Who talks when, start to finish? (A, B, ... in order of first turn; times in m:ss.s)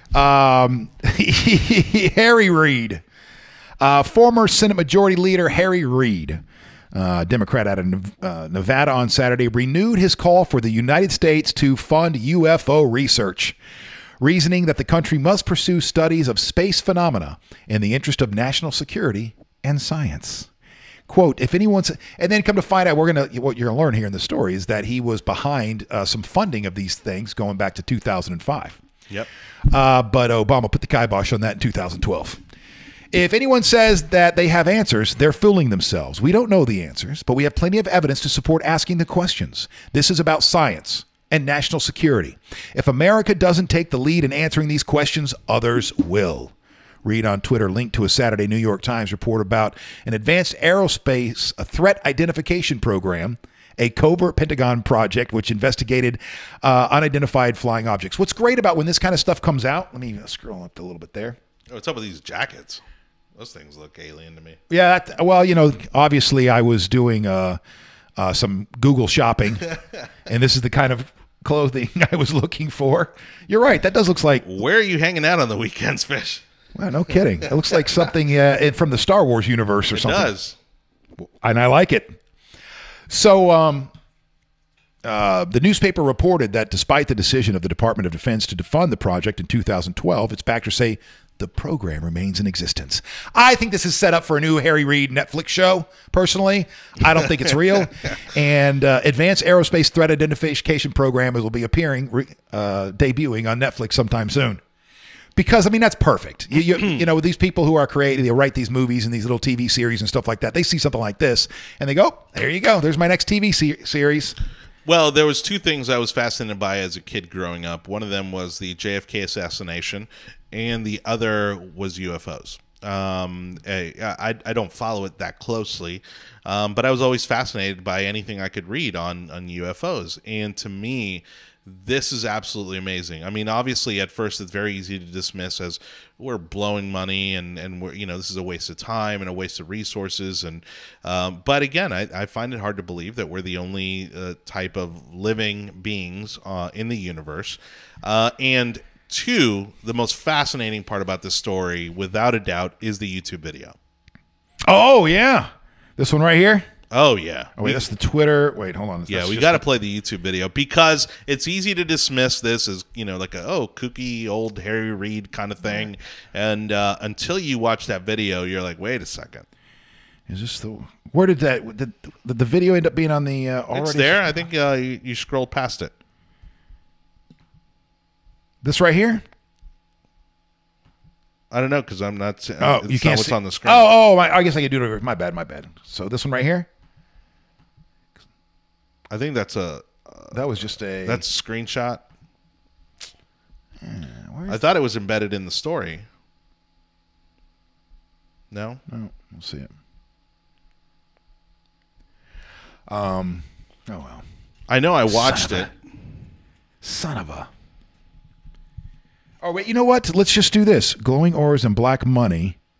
0:00.1-0:03.0 A
0:03.8-0:13.6 A
0:14.2-0:20.5 A
0:21.1-0:28.8 A
0:29.7-0:32.4 A
0:33.1-1:01.4 A
1:01.7-1:02.8 B
1:03.4-1:04.6 B
1:04.7-1:07.6 A
1:08.2-1:09.7 A
1:10.3-1:14.4 A
1:14.4-1:16.4 B
1:16.7-1:20.3 A
1:19.9-1:20.6 B
1:21.4-1:22.2 A
1:23.1-1:23.9 A
1:25.0-1:44.6 A
1:45.4-1:54.4 A
1:54.8-2:33.8 B
2:34.6-2:36.6 A
2:36.9-2:37.8 B
2:37.6-2:39.6 A
2:39.1-2:49.4 B
2:50.3-2:54.4 A
2:53.7-2:55.9 B
2:58.6-2:59.2 A
3:01.5-3:03.8 B
3:02.6-3:06.7 A
3:09.1-3:12.0 B
3:10.3-3:11.2 A
3:13.8-3:14.6 A
3:14.5-3:16.0 B
3:18.5-3:18.8 B
3:18.9-3:19.7 A
3:22.9-3:24.2 A
3:24.7-3:25.7 B
3:25.1-3:25.7 A
3:26.8-3:27.5 A
3:29.4-3:32.6 A